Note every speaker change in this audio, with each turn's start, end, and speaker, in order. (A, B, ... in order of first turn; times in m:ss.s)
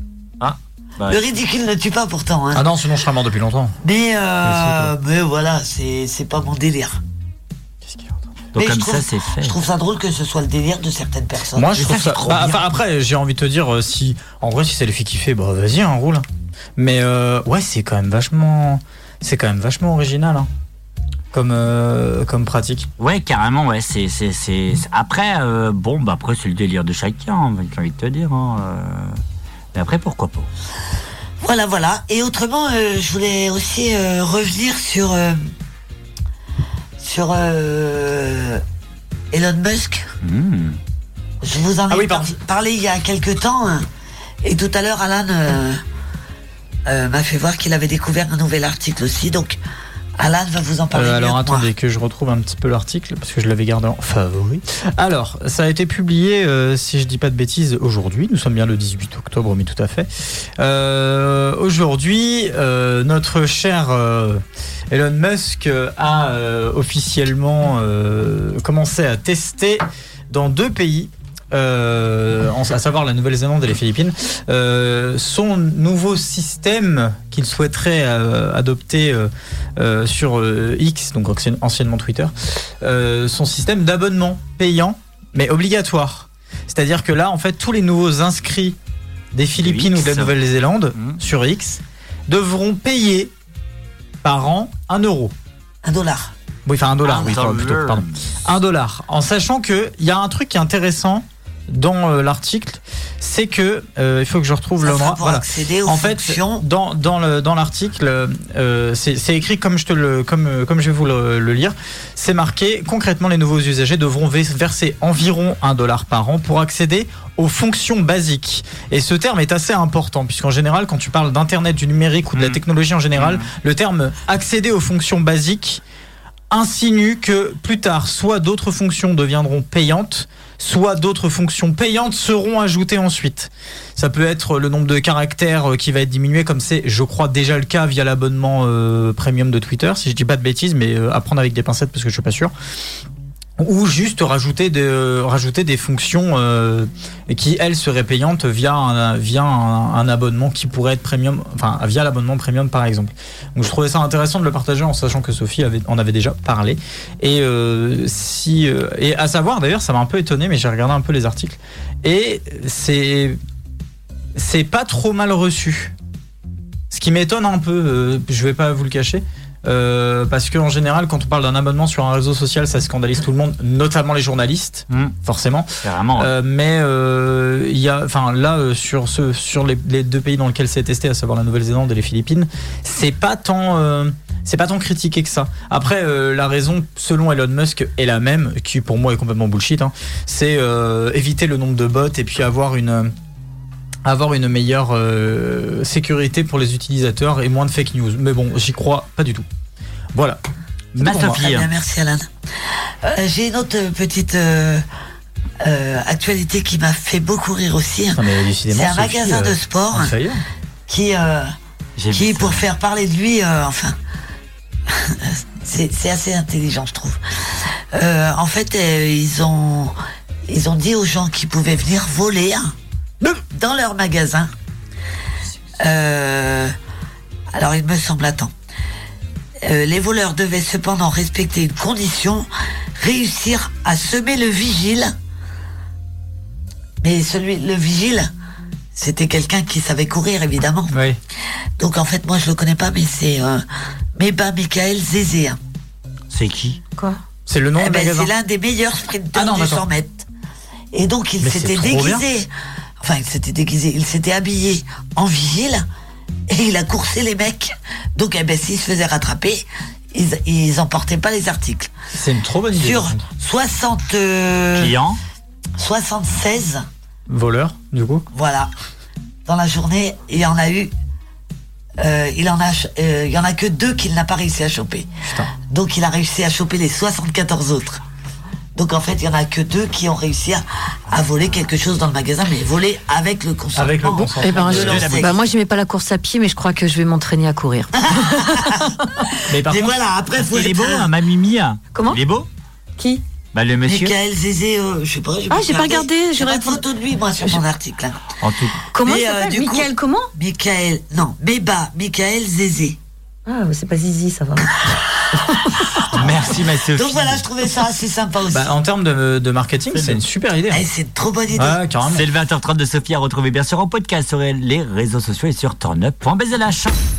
0:00.4-0:01.2 A
0:01.0-0:02.7 B
0:02.5-0:03.8 C
0:03.8-0:07.0 B
0:04.6-0:04.8 A
0:07.8-0:08.3 C
0:08.5-0:09.5 A
0:08.6-0:11.7 B
0:11.5-0:16.2 C
0:11.7-0:12.6 A
0:16.8-0:20.5 C
0:21.3-0:22.9 C
0:23.0-0:29.2 A
0:29.7-0:30.5 A
0:31.4-0:35.4 B
0:37.0-0:38.6 B
0:39.3-0:40.1 B
0:40.2-0:40.8 A
0:41.4-0:43.9 B
0:41.9-0:42.3 C
0:44.4-0:45.8 B
0:46.9-0:49.6 B
0:50.2-0:51.7 B
0:50.9-1:28.8 C
1:29.3-1:33.3 C
1:29.6-1:30.3 A
1:34.2-1:35.3 C
1:35.8-1:36.3 B
1:36.6-2:05.8 C
1:37.0-1:38.1 A
1:44.8-1:46.6 B
2:02.3-2:02.6 A
2:03.1-2:03.5 A
2:06.5-2:22.5 C
2:23.6-2:43.4 C
2:44.4-2:45.9 C
2:46.9-3:13.1 C
2:55.8-2:56.3 A
3:14.0-3:19.4 C
3:20.1-3:20.4 C
3:20.9-3:21.5 C
3:21.0-3:21.6 A
3:21.4-3:22.3 B
3:23.0-3:24.8 B
3:25.6-3:30.1 B
3:28.1-3:30.4 C
3:30.9-3:31.5 B
3:32.0-3:32.6 A
3:32.1-3:33.9 B
3:34.9-3:37.2 B
3:37.9-3:39.9 B
3:40.5-3:42.7 B
3:43.5-3:44.5 B
3:45.8-3:46.7 B
3:47.5-3:48.5 B
3:49.6-3:55.1 B
3:57.0-3:58.3 B
3:58.9-4:01.0 B
4:00.9-4:01.2 C
4:01.8-4:03.6 B
4:04.2-4:05.6 B
4:06.3-4:06.8 A
4:07.5-4:08.3 C
4:07.8-4:10.3 B
4:09.3-4:09.8 C
4:10.9-4:12.5 B
4:11.4-4:12.2 C
4:13.0-4:15.8 B
4:16.5-4:21.9 B
4:22.1-4:23.2 C
4:22.7-4:25.0 B
4:24.7-4:25.2 A
4:25.8-4:26.8 B
4:27.3-4:28.2 C
4:28.3-4:28.7 B
4:29.4-4:30.9 B
4:32.0-4:35.1 B
4:35.2-4:35.5 C
4:35.7-4:38.0 B
4:38.8-4:45.4 B
4:43.8-4:45.1 C
4:44.4-4:49.0 D
4:44.7-4:45.4 A
4:48.1-4:51.1 B
4:49.5-4:49.9 C
4:50.4-4:52.5 A
4:51.9-4:52.2 D
4:53.0-4:53.2 D
4:53.5-4:54.1 A
4:53.8-4:58.2 B
4:55.5-4:56.8 D
4:58.4-4:58.8 A
4:58.9-5:00.3 D
4:59.0-5:03.0 B
5:03.4-5:04.7 D
5:06.0-5:07.4 A
5:06.1-5:06.6 C
5:06.9-5:08.7 B
5:08.5-5:10.9 C
5:09.9-5:10.2 A
5:10.7-5:11.8 B
5:11.5-5:12.3 C
5:12.1-5:17.0 A